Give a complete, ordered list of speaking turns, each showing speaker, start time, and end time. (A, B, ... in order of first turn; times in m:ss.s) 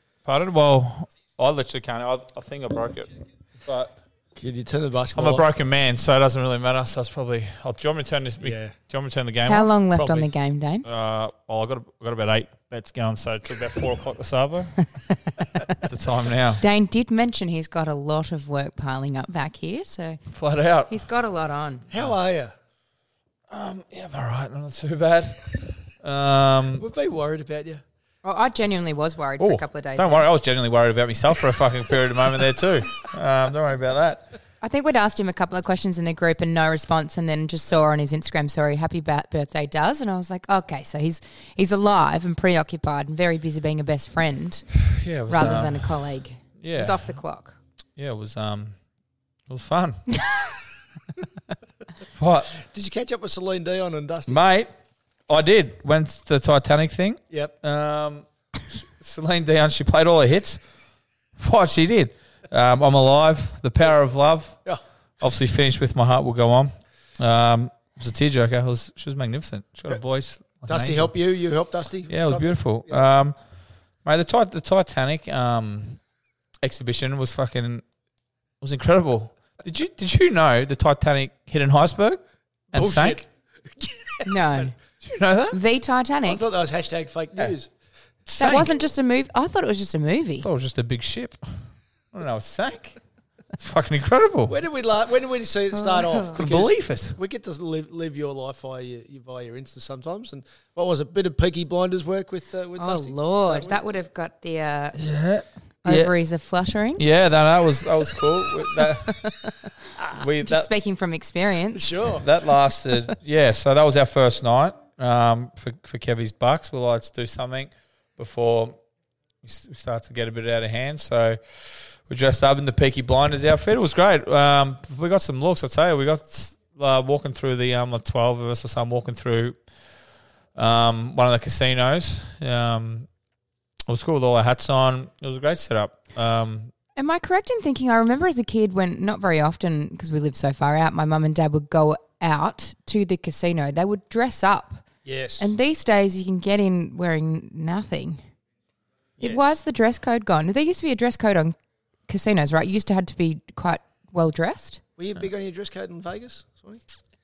0:00.2-0:04.0 A
0:04.4-0:05.5 B
0:05.1-0:10.3 A
0:08.4-0:08.8 B
0:09.5-0:10.9 C
0:10.8-0:14.8 A
0:15.8-0:16.6 A
0:16.6-0:20.2 C
0:20.3-0:20.9 A
0:20.9-0:21.9 C
0:21.9-0:22.5 B
0:23.5-0:26.9 A
0:26.8-0:27.8 B
0:28.2-0:30.3 C
0:29.4-0:34.3 A
0:34.6-0:44.7 C
0:44.8-0:45.9 A
0:45.3-0:47.6 C
0:46.6-0:47.1 A
0:48.0-0:48.8 A
0:49.5-0:50.0 A
0:52.2-0:52.6 A
0:52.6-0:54.4 B
0:54.3-0:54.7 A
0:55.3-1:00.6 A
1:01.4-1:04.6 A
1:05.2-1:11.1 A
1:10.7-1:13.0 B
1:12.1-1:13.4 A
1:14.0-1:16.0 A
1:16.6-1:17.8 A
1:18.6-1:22.2 A
1:22.7-1:23.2 A
1:22.7-1:24.7 B
1:24.2-1:24.8 C
1:25.0-1:25.6 A
1:25.5-1:26.4 C
1:26.3-1:27.7 B
1:28.3-1:28.7 A
1:28.4-1:30.5 C
1:30.4-1:31.6 A
1:32.1-1:33.0 A
1:33.6-1:34.6 A
1:34.5-1:43.8 B
1:35.8-1:36.4 C
1:36.3-1:37.2 A
1:42.8-1:45.0 C
1:45.0-1:46.2 A
1:45.8-1:47.0 C
1:47.0-1:49.2 A
1:49.0-1:49.5 C
1:50.1-1:50.7 A
1:50.4-1:52.0 C
1:51.7-1:52.3 B
1:52.1-1:58.8 A
1:59.4-2:09.6 A
2:10.6-2:13.1 A
2:13.9-2:16.7 A
2:17.0-2:24.8 C
2:25.0-2:25.5 B
2:25.4-2:28.2 C
2:29.2-2:29.4 B
2:29.2-2:31.6 C
2:32.1-2:34.8 C
2:35.0-2:36.8 B